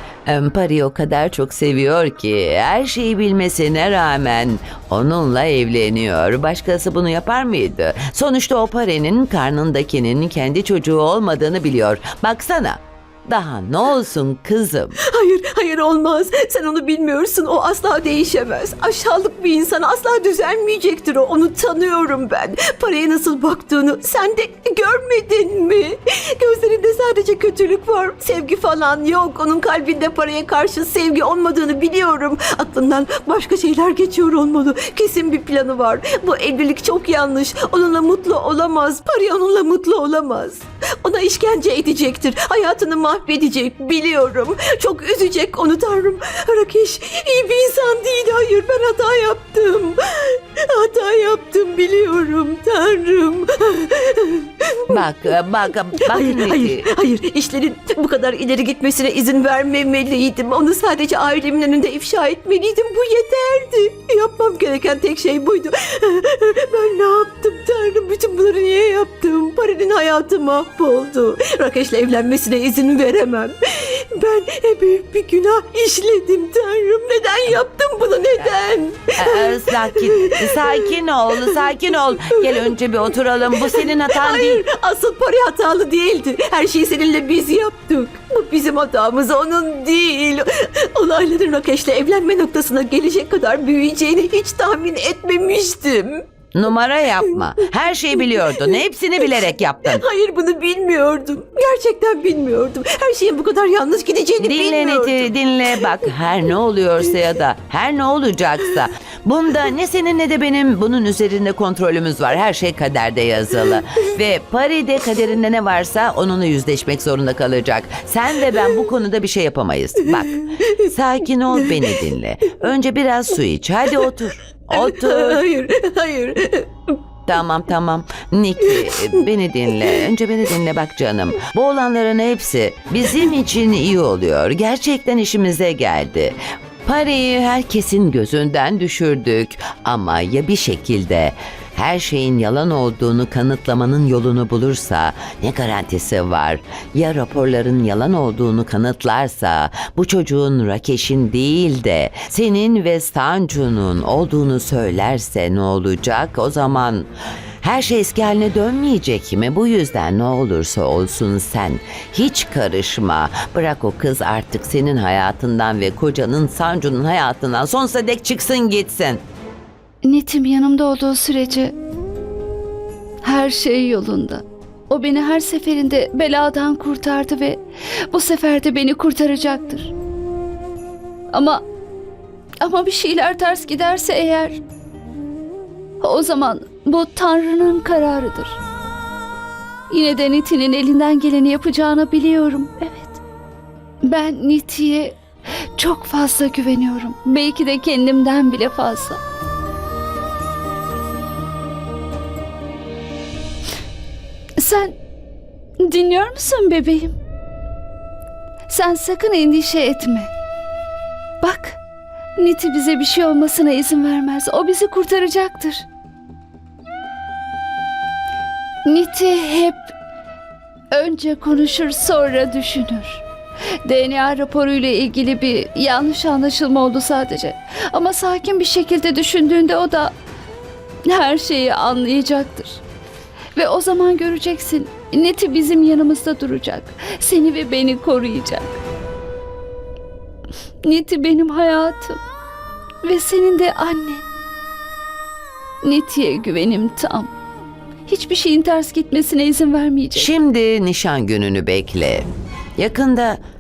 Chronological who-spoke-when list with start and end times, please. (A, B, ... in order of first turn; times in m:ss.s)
0:00.3-0:14.9 A
0:15.1-1:47.4 B
0:55.0-0:56.8 A
1:19.2-1:24.6 A
1:36.6-1:40.0 A
1:44.4-2:00.2 A
1:53.6-1:54.0 B
1:58.3-1:58.8 B
2:00.0-2:02.5 B
2:01.0-2:05.4 A
2:04.7-2:07.0 B
2:07.3-2:16.4 A
2:08.6-2:10.5 B
2:16.9-2:37.1 A
2:37.6-2:49.2 A
2:50.0-2:51.7 C
2:53.2-2:59.9 C
3:01.3-3:01.6 C
3:02.6-3:04.6 C
3:06.0-3:08.6 C
3:09.9-3:13.2 C
3:14.0-3:15.2 C
3:15.8-3:19.2 C
3:24.6-3:25.0 C
3:25.8-3:27.1 C
3:28.7-3:30.3 C
3:31.4-3:31.8 C
3:32.4-3:35.9 C
3:38.9-3:39.9 C
3:40.9-3:43.2 C
3:43.9-3:50.1 C
3:51.1-3:52.8 C
3:53.6-3:58.8 C
4:00.8-4:02.2 C
4:03.0-4:04.2 C
4:05.8-4:07.3 C
4:08.1-4:10.4 C
4:10.2-4:12.2 A
4:12.8-4:13.4 A